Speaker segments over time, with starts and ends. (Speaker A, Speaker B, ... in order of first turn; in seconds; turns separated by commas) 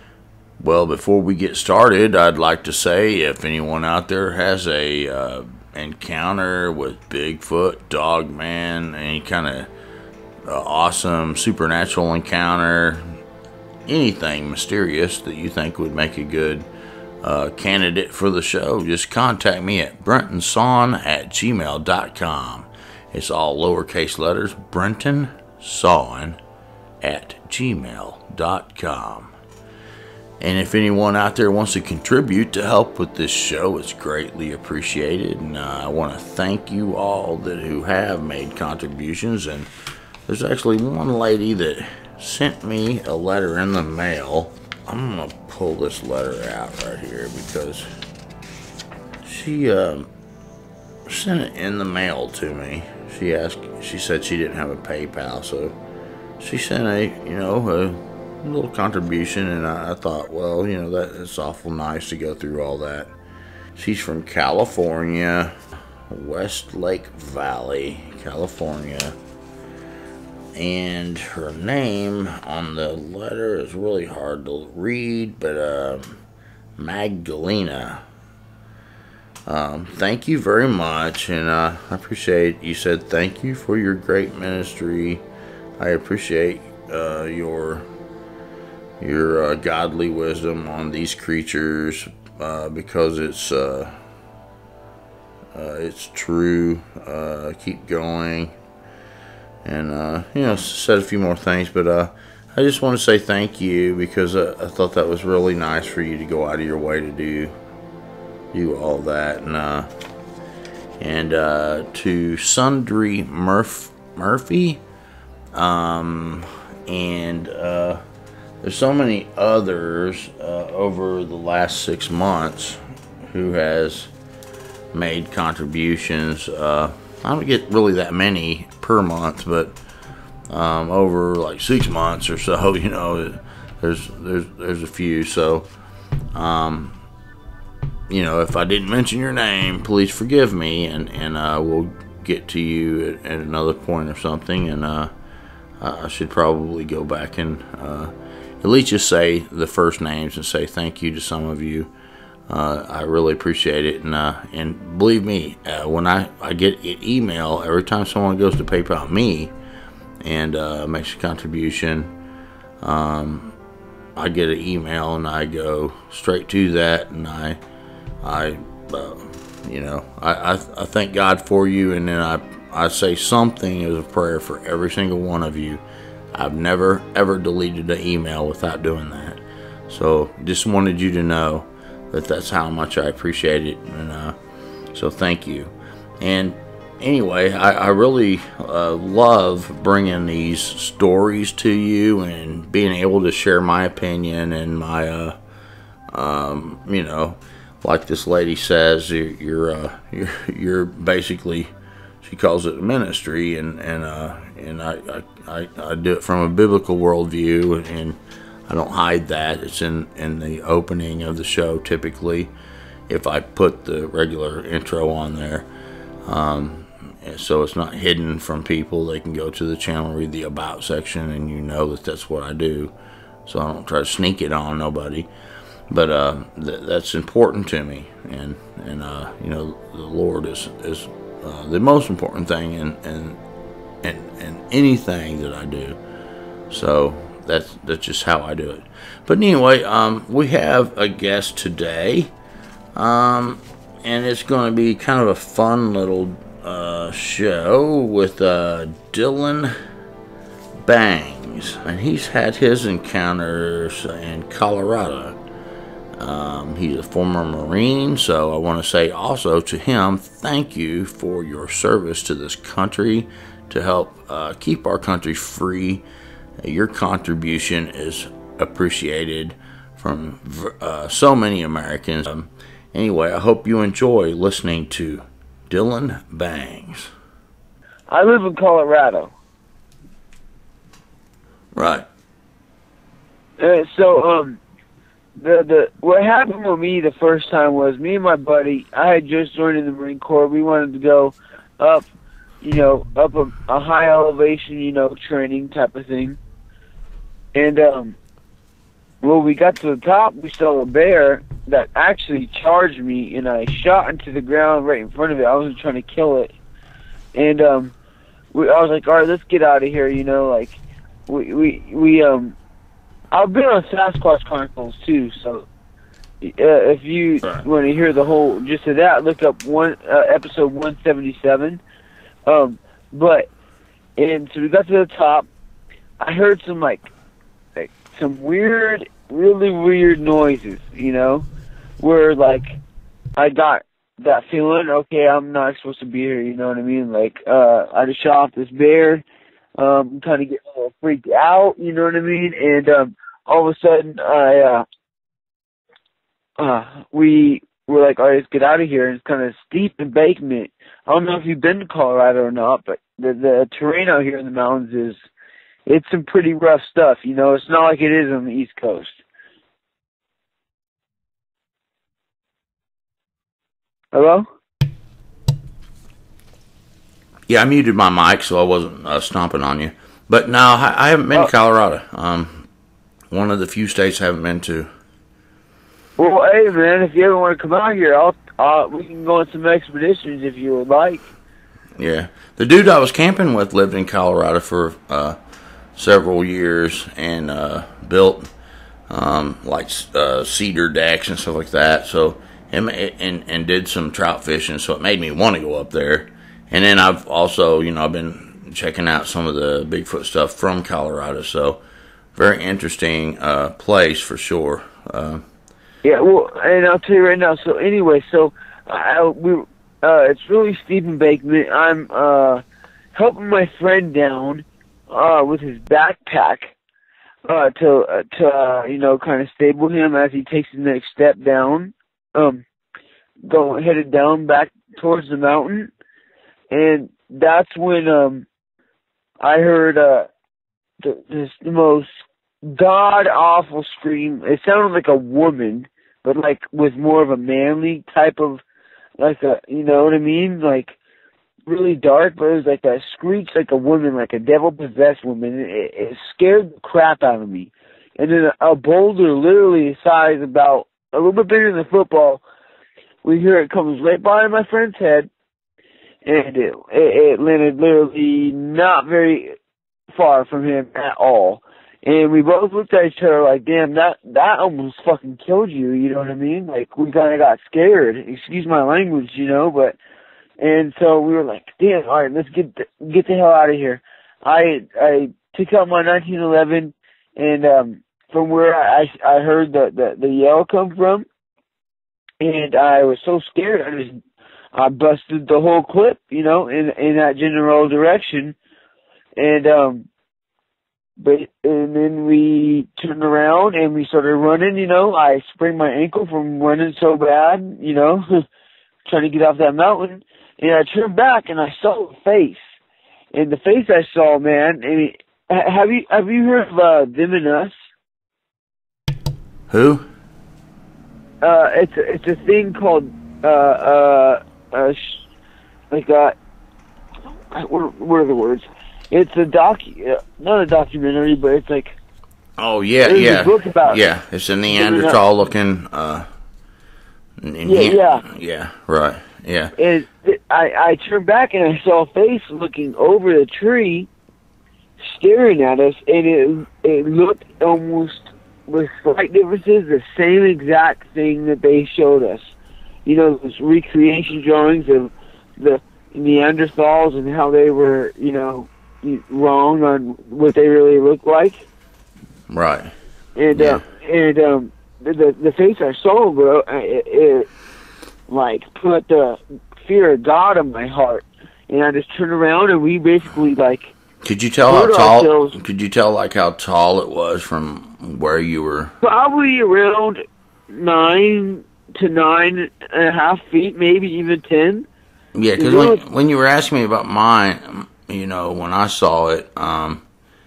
Speaker A: 0.6-9.7, Speaker A: 10.5-13.0, Speaker A: 13.9-16.6, Speaker A: 17.2-26.4, Speaker A: 27.0-29.3, Speaker A: 30.4-39.7, Speaker A: 40.3-47.9, Speaker A: 49.2-50.1, Speaker A: 51.1-55.7, Speaker A: 56.4-63.1, Speaker A: 63.8-65.5, Speaker A: 66.1-69.2, Speaker A: 70.5-76.2, Speaker A: 76.8-78.0, Speaker A: 79.5-85.2, Speaker A: 85.8-87.8, Speaker A: 89.0-93.9, Speaker A: 95.5-98.5, Speaker A: 99.7-107.5, Speaker A: 108.5-109.9, Speaker A: 111.0-114.8, Speaker A: 115.5-118.0, Speaker A: 118.6-124.1, Speaker A: 124.9-129.8, Speaker A: 130.5-135.7, Speaker A: 136.3-137.0, Speaker A: 138.1-145.1, Speaker A: 145.8-148.1, Speaker A: 148.6-151.9, Speaker A: 152.5-159.5, Speaker A: 160.2-162.1, Speaker A: 162.8-163.6, Speaker A: 164.2-167.6, Speaker A: 168.2-175.8, Speaker A: 176.3-184.3, Speaker A: 184.9-195.3, Speaker A: 196.1-212.5, Speaker A: 213.1-215.7, Speaker A: 216.3-222.9, Speaker A: 223.5-225.3, Speaker A: 225.9-233.4, Speaker A: 234.0-236.0, Speaker A: 236.7-242.3, Speaker A: 243.0-249.7, Speaker A: 250.8-255.4, Speaker A: 256.2-266.0, Speaker A: 266.6-277.1, Speaker B: 278.1-279.3, Speaker A: 281.7-282.1, Speaker B: 283.6-284.6, Speaker B: 285.4-292.1, Speaker B: 292.6-296.4, Speaker B: 297.6-298.2, Speaker B: 299.2-306.5, Speaker B: 307.4-307.9, Speaker B: 308.5-312.6, Speaker B: 313.3-315.7, Speaker B: 316.4-321.8, Speaker B: 322.5-323.5, Speaker B: 324.2-325.5, Speaker B: 326.2-327.1, Speaker B: 327.8-331.5, Speaker B: 332.0-332.8, Speaker B: 333.4-339.2, Speaker B: 339.8-344.9, Speaker B: 346.6-355.2, Speaker B: 355.9-359.2, Speaker B: 364.1-364.5, Speaker A: 367.5-372.6, Speaker A: 373.3-374.9, Speaker B: 376.2-381.2, Speaker A: 382.0-385.4, Speaker A: 386.0-388.5, Speaker A: 389.1-401.8, Speaker A: 402.4-405.4, Speaker B: 406.0-412.6, Speaker B: 413.1-416.7, Speaker B: 417.5-422.6, Speaker B: 423.4-425.9, Speaker B: 426.7-428.5, Speaker B: 429.4-430.3, Speaker B: 431.0-432.1, Speaker B: 432.6-438.6, Speaker B: 439.2-440.9, Speaker B: 441.7-452.4, Speaker B: 453.2-455.3, Speaker B: 456.2-459.6, Speaker B: 460.1-470.0, Speaker B: 470.6-481.3, Speaker B: 482.4-484.2, Speaker B: 484.8-488.6, Speaker B: 489.4-490.1, Speaker B: 491.2-498.4, Speaker B: 499.1-502.6, Speaker B: 503.3-507.7, Speaker A: 509.7-510.1, Speaker B: 511.4-515.2, Speaker B: 515.9-516.4, Speaker B: 517.5-522.0, Speaker A: 522.6-526.3, Speaker B: 523.0-524.0, Speaker B: 524.7-525.2, Speaker A: 527.4-529.7, Speaker B: 527.6-528.2, Speaker B: 529.8-534.1, Speaker B: 535.0-542.5, Speaker B: 543.1-551.6, Speaker A: 552.5-552.9, Speaker B: 553.4-557.5, Speaker A: 553.5-553.8, Speaker B: 558.3-563.9, Speaker A: 564.2-568.9, Speaker B: 564.7-565.5, Speaker B: 569.0-574.9, Speaker A: 575.4-580.0, Speaker B: 575.6-576.0